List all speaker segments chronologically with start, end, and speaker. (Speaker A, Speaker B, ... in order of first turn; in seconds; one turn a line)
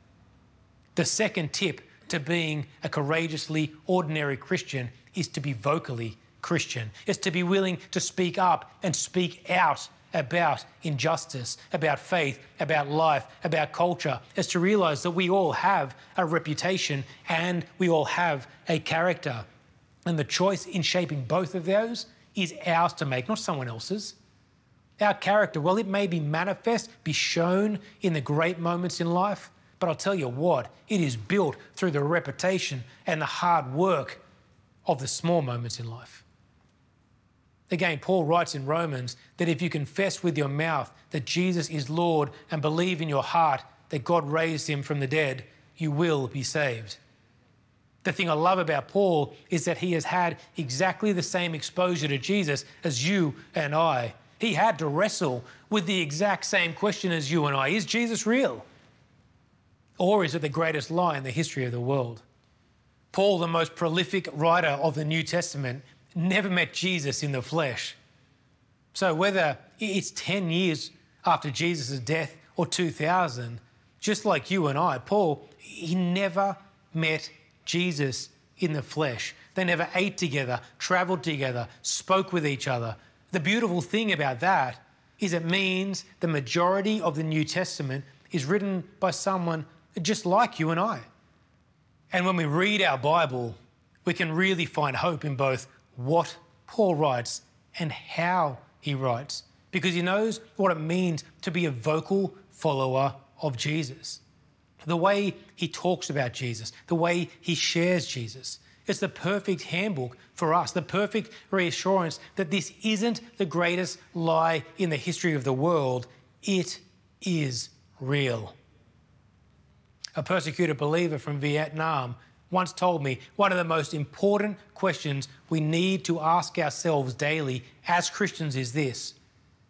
Speaker A: 0.9-19.4
Speaker A: 20.1-24.1
Speaker A: 25.0-34.2
Speaker A: 34.9-36.2
Speaker A: 37.7-47.0
Speaker A: 48.0-58.6
Speaker A: 60.0-62.2
Speaker A: 63.1-68.0
Speaker A: 68.9-91.0
Speaker A: 92.1-104.2
Speaker A: 104.8-118.5
Speaker A: 120.2-129.2